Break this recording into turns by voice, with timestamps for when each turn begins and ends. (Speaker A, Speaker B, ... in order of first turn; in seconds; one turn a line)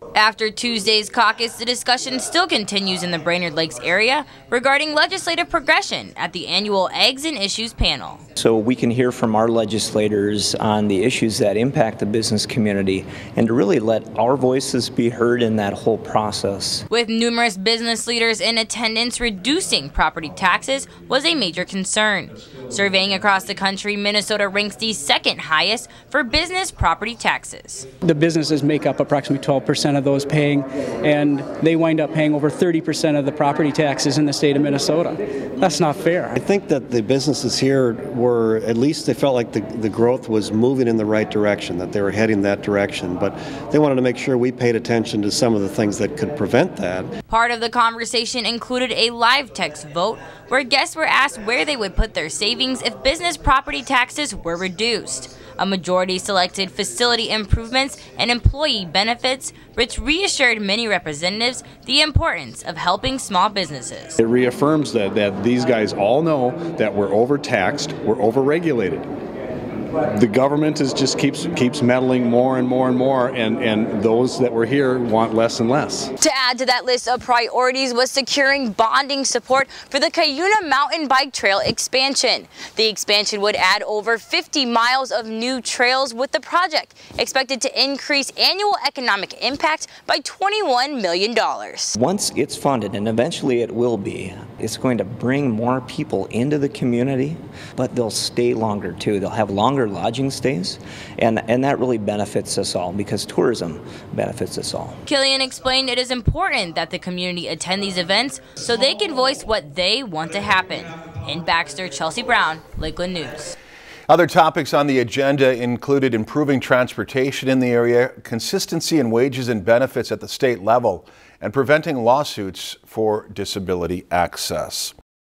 Speaker A: 0.1-8.2
Speaker B: 8.4-16.9
Speaker A: 16.9-27.9
Speaker C: 28.0-36.4
Speaker D: 36.4-47.1
Speaker A: 47.3-64.2
Speaker E: 64.2-69.0
Speaker E: 70.1-76.1
Speaker A: 76.2-92.0
Speaker B: 92.0-105.0
Speaker A: 105.1-113.5
Speaker F: 114.1-124.9